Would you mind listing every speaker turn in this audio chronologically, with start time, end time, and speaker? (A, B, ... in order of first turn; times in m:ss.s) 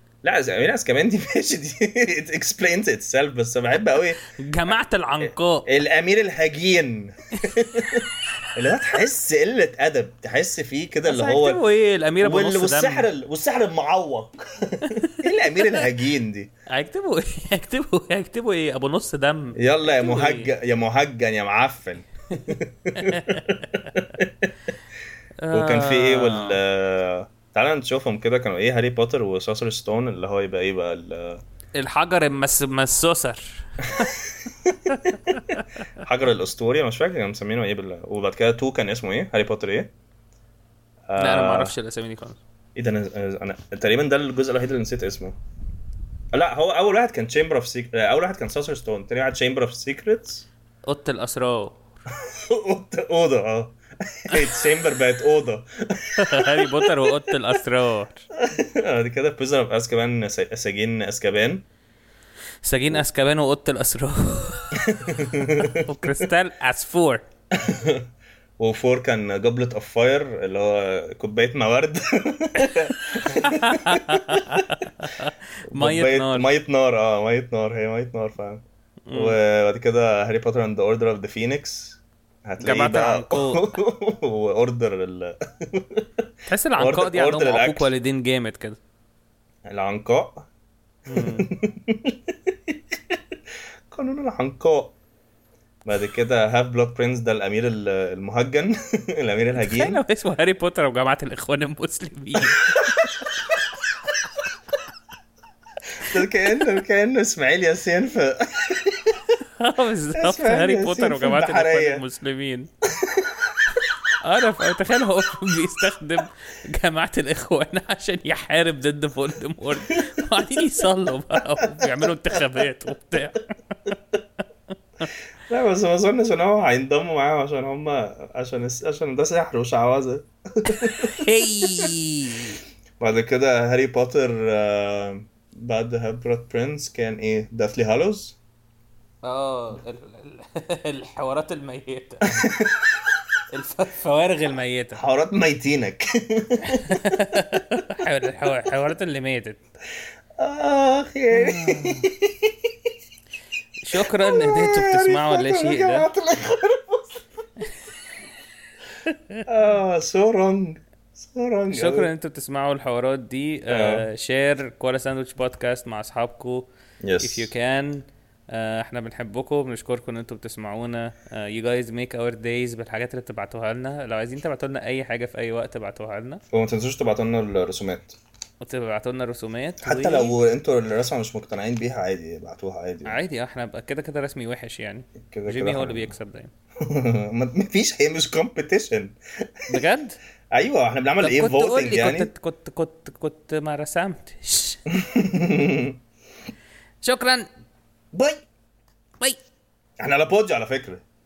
0:00.2-0:04.2 A
0:04.4-0:05.7 B
0:05.2-0:11.6 A
0:11.0-0:13.1 B
0:12.2-0:16.5 A
0:16.7-0:20.5 B
0:19.6-0:24.5 A
0:23.0-0:23.6 B
0:25.4-0:26.6 B
0:25.5-0:31.4 A
0:31.8-0:34.1 B
0:34.0-0:35.3 A
0:35.0-0:35.6 B
0:36.0-0:39.9 A
0:41.1-0:41.7 A
0:41.2-0:42.4 B
0:42.8-0:45.4 A
0:46.3-0:50.5 A
0:50.9-0:51.8 B
0:52.2-0:57.4 A
0:56.2-0:58.3 B
0:58.4-1:01.6 A
1:02.6-1:04.8 B
1:04.8-1:05.8 A
1:05.6-1:07.2 B
1:07.5-1:08.1 A
1:08.6-1:14.7 A
1:12.6-1:16.5 B
1:15.7-1:27.9 A
1:19.1-1:19.4 B
1:22.6-1:23.7 B
1:26.5-1:28.8 B
1:29.6-1:30.5 A
1:31.1-1:31.5 B
1:31.1-1:33.2 A
1:33.9-1:35.0 A
1:35.8-1:40.0 A
1:39.6-1:42.7 B
1:42.4-1:43.6 A
1:46.0-1:49.3 A
1:49.6-1:52.7 B
1:50.2-1:52.0 A
1:52.9-1:53.6 A
1:54.2-2:03.5 B
1:59.7-2:00.4 A
2:01.3-2:02.6 A
2:05.5-2:11.9 A
2:11.0-2:12.6 B
2:13.0-2:18.4 A
2:19.2-2:22.3 B
2:22.3-2:23.2 A
2:23.5-2:25.0 B
2:25.0-2:27.6 A
2:26.6-2:29.6 B
2:30.4-2:32.7 A
2:31.3-2:32.1 B
2:33.8-2:36.1 B
2:34.0-2:37.2 A
2:39.1-2:39.4 B
2:39.5-2:42.1 A
2:41.7-2:46.7 B
2:43.7-2:44.1 A
2:47.0-2:47.5 A
2:47.2-2:56.4 B
2:56.5-2:58.2 A
2:58.6-3:00.4 B
2:59.8-3:03.2 A
3:03.0-3:06.5 B
3:05.2-3:06.1 A
3:06.8-3:09.5 A
3:09.7-3:10.2 B
3:10.5-3:12.3 A
3:11.2-3:14.8 B
3:14.9-3:16.0 A
3:17.0-3:17.5 B
3:18.1-3:18.4 A
3:20.0-3:21.0 A